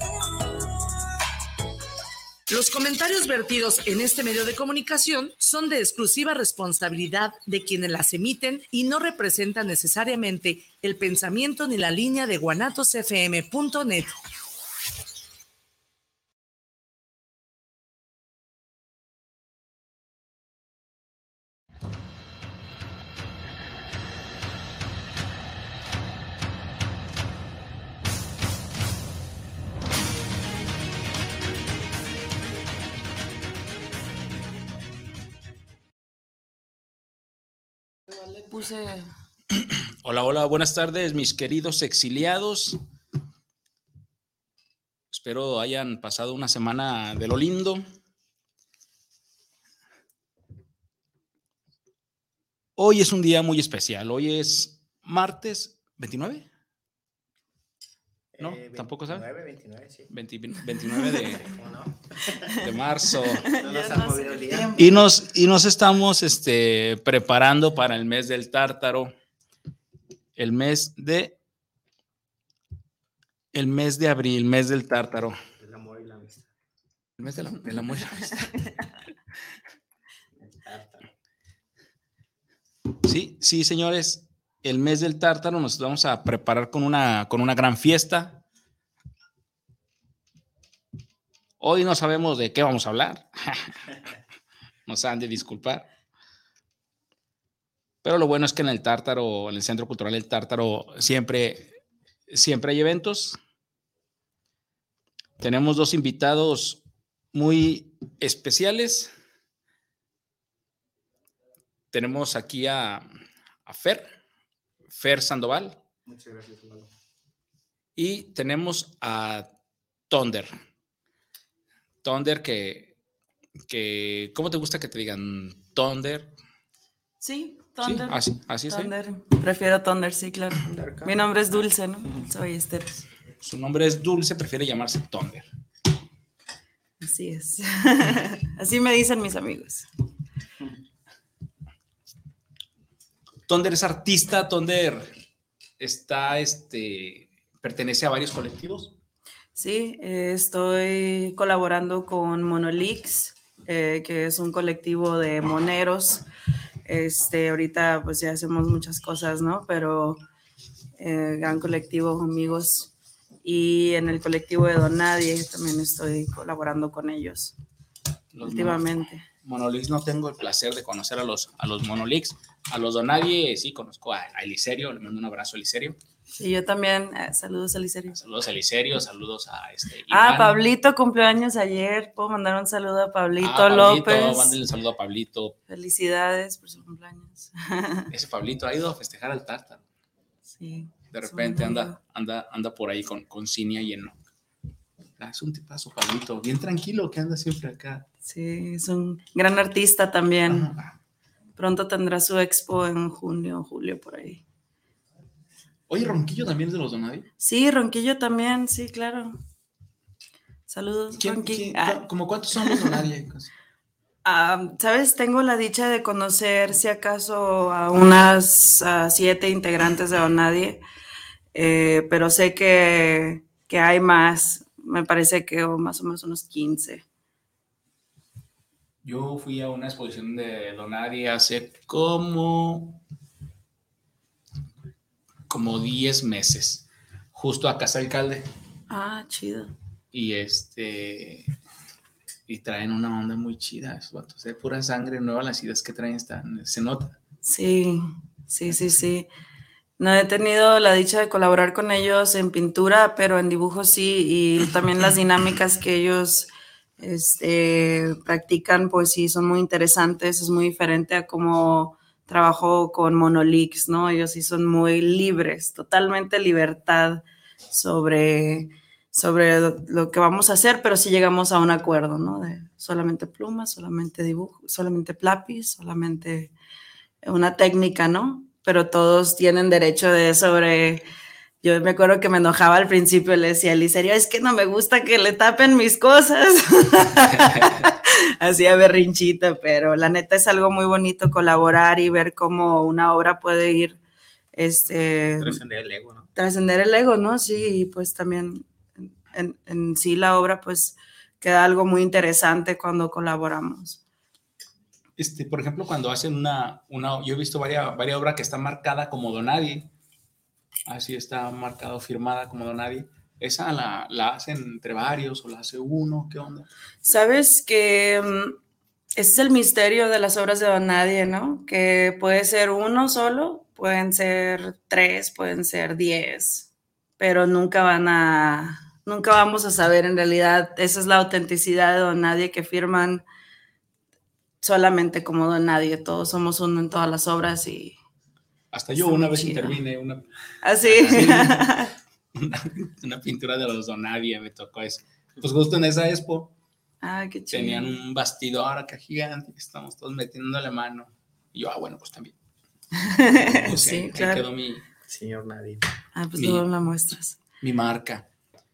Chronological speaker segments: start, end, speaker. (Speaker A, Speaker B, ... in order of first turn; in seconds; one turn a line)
Speaker A: 2.5-14.2
Speaker B: 38.2-39.1
Speaker C: 40.0-42.8
Speaker C: 45.1-47.8
Speaker C: 52.8-56.5
Speaker D: 58.3-60.1
Speaker C: 58.4-59.2
Speaker C: 60.1-61.5
Speaker D: 61.2-62.5
Speaker C: 62.5-63.5
Speaker B: 63.4-65.0
Speaker D: 63.5-64.8
Speaker C: 64.8-69.1
Speaker C: 70.3-71.3
Speaker C: 73.5-75.3
Speaker D: 75.6-76.5
Speaker C: 77.2-78.5
Speaker D: 80.4-81.1
Speaker C: 83.0-88.4
Speaker C: 91.6-93.9
Speaker C: 94.9-95.9
Speaker C: 98.0-101.7
Speaker C: 102.3-103.4
Speaker C: 105.4-106.8
Speaker C: 107.3-109.1
Speaker C: 111.9-113.0
Speaker C: 113.7-114.1
Speaker C: 114.9-115.8
Speaker D: 116.0-116.9
Speaker C: 118.0-119.5
Speaker C: 120.1-120.5
Speaker C: 122.0-122.9
Speaker C: 123.7-126.3
Speaker B: 127.2-133.0
Speaker C: 127.8-128.9
Speaker D: 130.7-131.2
Speaker C: 133.4-135.5
Speaker B: 137.0-139.9
Speaker C: 143.5-145.1
Speaker C: 145.8-148.9
Speaker B: 149.5-156.2
Speaker B: 156.8-160.2
Speaker B: 161.0-167.5
Speaker C: 168.3-168.8
Speaker B: 168.4-169.2
Speaker C: 169.4-176.0
Speaker B: 176.3-178.2
Speaker C: 178.1-180.6
Speaker B: 180.1-184.6
Speaker C: 183.4-185.6
Speaker B: 185.7-188.1
Speaker C: 188.1-189.8
Speaker B: 190.5-192.0
Speaker C: 191.1-194.2
Speaker C: 195.2-198.0
Speaker B: 198.2-200.7
Speaker C: 200.5-200.9
Speaker B: 201.6-204.4
Speaker C: 205.9-207.3
Speaker B: 207.4-209.4
Speaker B: 210.7-212.1
Speaker C: 211.2-213.5
Speaker B: 212.6-213.0
Speaker B: 214.2-220.8
Speaker B: 221.5-227.0
Speaker C: 229.0-233.0
Speaker C: 235.5-238.5
Speaker B: 238.9-239.7
Speaker C: 240.1-241.5
Speaker C: 242.5-247.2
Speaker B: 247.4-249.3
Speaker B: 250.0-276.5
Speaker B: 277.2-281.0
Speaker B: 281.6-294.0
Speaker B: 294.5-295.6
Speaker D: 295.4-296.3
Speaker B: 296.3-304.0
Speaker C: 305.2-309.9
Speaker C: 310.9-316.7
Speaker B: 317.0-318.6
Speaker B: 319.2-326.7
Speaker B: 327.2-333.2
Speaker B: 334.6-337.9
Speaker C: 338.7-340.3
Speaker B: 339.0-339.8
Speaker B: 340.6-341.9
Speaker C: 340.9-341.7
Speaker C: 342.3-346.5
Speaker B: 347.0-347.9
Speaker C: 347.5-352.3
Speaker B: 352.9-354.4
Speaker C: 353.6-354.8
Speaker D: 355.1-355.9
Speaker B: 356.1-357.4
Speaker C: 356.4-356.6
Speaker C: 357.6-358.2